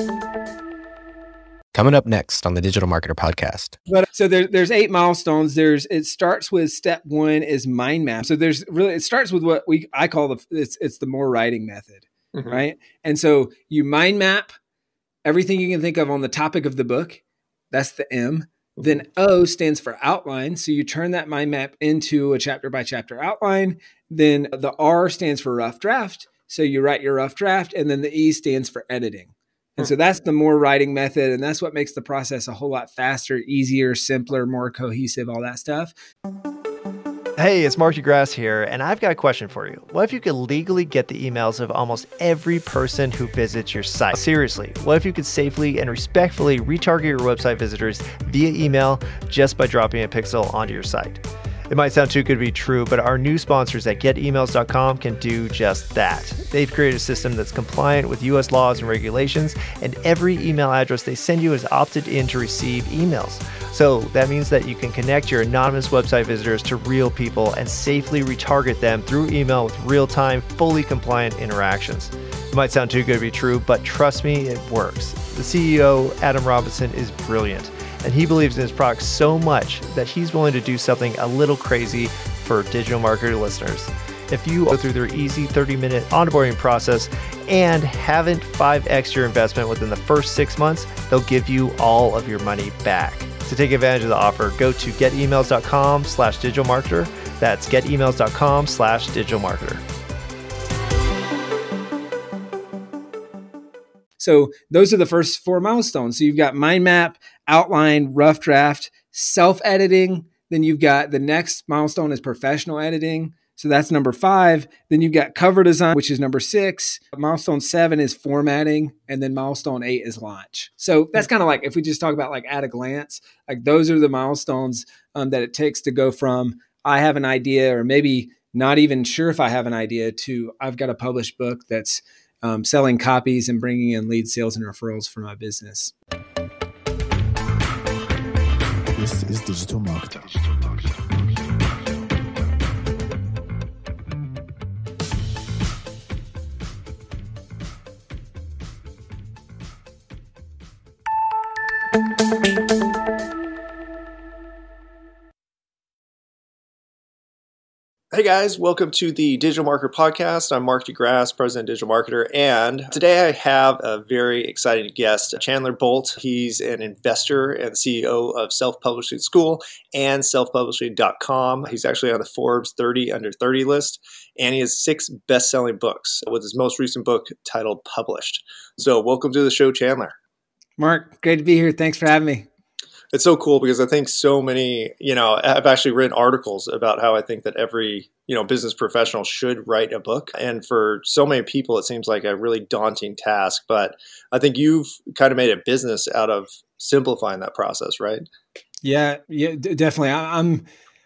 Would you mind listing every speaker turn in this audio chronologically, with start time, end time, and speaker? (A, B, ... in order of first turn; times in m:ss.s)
0:01.7-0:03.8 A
0:03.9-0:14.6 B
0:12.3-0:12.6 C
0:15.2-0:35.9 B
0:37.4-1:39.8 D
1:44.2-2:15.9 B
2:18.9-2:20.9 E
2:38.1-3:00.2 C
3:00.8-3:02.5 B
3:03.1-3:18.2 C
3:18.8-3:20.6 B